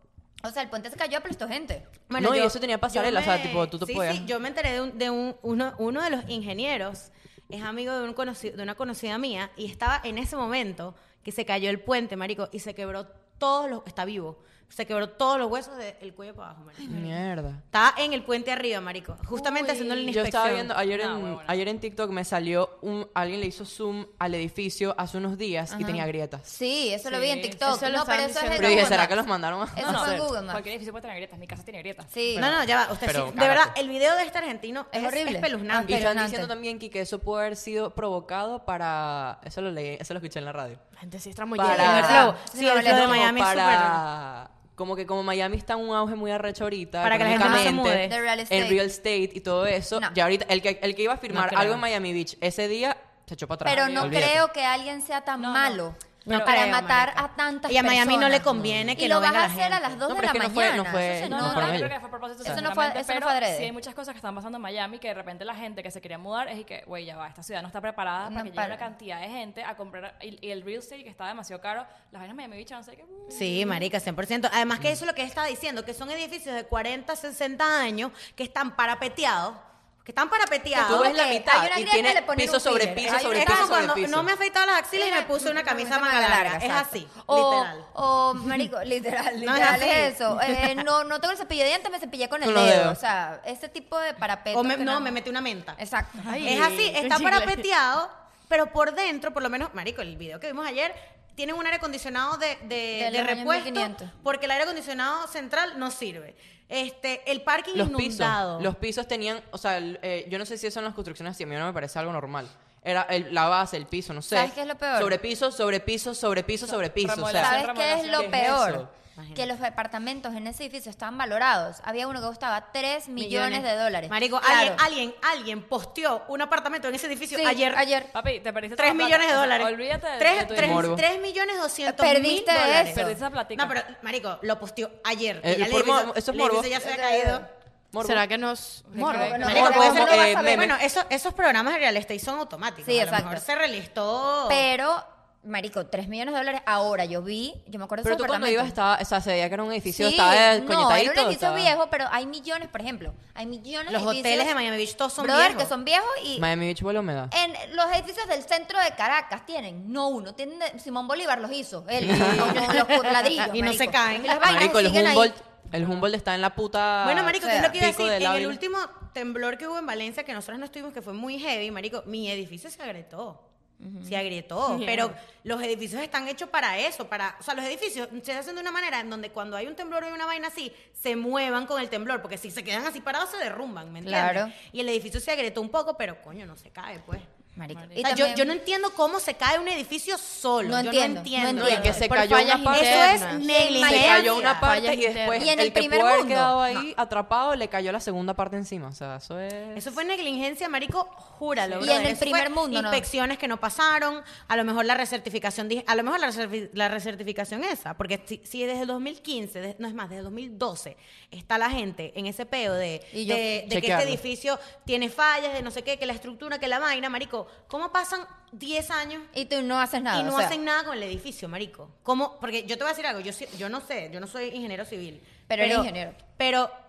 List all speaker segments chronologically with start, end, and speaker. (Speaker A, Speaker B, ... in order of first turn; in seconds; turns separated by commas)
Speaker A: 0.4-1.9, Speaker B: 2.1-16.8, Speaker C: 2.2-4.3, Speaker C: 16.8-17.6, Speaker B: 17.7-20.7, Speaker D: 19.3-20.4, Speaker C: 20.1-26.5, Speaker E: 20.9-21.6, Speaker A: 25.7-30.7, Speaker E: 27.0-27.7, Speaker D: 27.6-29.1, Speaker C: 28.5-30.3, Speaker E: 29.9-32.2, Speaker D: 29.9-30.2, Speaker A: 32.1-32.5, Speaker C: 32.3-33.8, Speaker B: 32.3-36.1, Speaker A: 34.9-36.5, Speaker C: 35.8-40.8, Speaker D: 41.0-42.4, Speaker C: 41.5-54.4, Speaker A: 41.6-43.3, Speaker B: 41.7-44.0, Speaker B: 47.0-48.1, Speaker A: 47.3-48.9, Speaker B: 51.3-51.8, Speaker A: 53.6-61.9, Speaker E: 53.9-54.2, Speaker E: 55.4-55.8, Speaker B: 56.2-60.0, Speaker C: 58.5-59.0, Speaker C: 60.1-61.9, Speaker E: 61.2-73.5, Speaker A: 62.4-63.7, Speaker A: 68.2-68.9, Speaker B: 73.3-81.1, Speaker A: 80.7-83.9, Speaker C: 80.8-84.3, Speaker B: 83.0-87.9, Speaker A: 84.9-95.2, Speaker B: 89.4-90.2, Speaker C: 92.4-93.0, Speaker B: 94.5-95.8, Speaker A: 95.8-96.5, Speaker D: 96.2-97.7, Speaker B: 96.4-108.7, Speaker A: 102.9-104.1, Speaker C: 107.7-117.5, Speaker A: 114.3-115.2, Speaker E: 116.6-118.5, Speaker A: 117.3-124.8, Speaker C: 118.1-118.9, Speaker B: 119.2-119.5, Speaker B: 123.2-127.8, Speaker A: 127.3-128.1, Speaker E: 128.1-130.9, Speaker B: 128.7-137.5, Speaker C: 130.3-131.0, Speaker A: 131.8-133.2, Speaker E: 132.8-133.7, Speaker C: 135.4-136.7, Speaker A: 136.8-137.4, Speaker C: 137.9-138.2, Speaker D: 138.0-139.6, Speaker E: 138.8-139.8, Speaker A: 139.0-140.7, Speaker C: 139.4-140.7, Speaker B: 139.4-144.7, Speaker A: 142.8-143.4, Speaker A: 144.5-148.8, Speaker C: 148.0-151.7, Speaker A: 149.9-154.5, Speaker B: 153.9-155.7, Speaker A: 155.2-156.5, Speaker C: 156.4-157.3, Speaker A: 157.3-165.4, Speaker C: 162.0-162.7, Speaker B: 162.0-164.8, Speaker C: 164.4-168.6, Speaker B: 167.0-173.4, Speaker A: 167.4-167.8, Speaker A: 173.8-174.2, Speaker B: 174.0-187.3, Speaker D: 174.7-175.2, Speaker A: 184.0-184.5, Speaker A: 187.6-188.6, Speaker E: 187.7-188.1, Speaker B: 188.0-192.1, Speaker A: 190.6-192.1, Speaker C: 191.5-193.2, Speaker D: 191.9-193.5, Speaker B: 192.7-194.7, Speaker A: 193.2-194.6, Speaker C: 193.8-199.9, Speaker D: 194.6-195.5, Speaker A: 195.4-196.9, Speaker B: 199.7-219.3, Speaker D: 201.6-202.0, Speaker A: 201.8-203.1, Speaker A: 213.1-213.5, Speaker C: 213.7-214.2, Speaker A: 219.3-220.6, Speaker B: 220.1-226.7, Speaker A: 225.5-226.2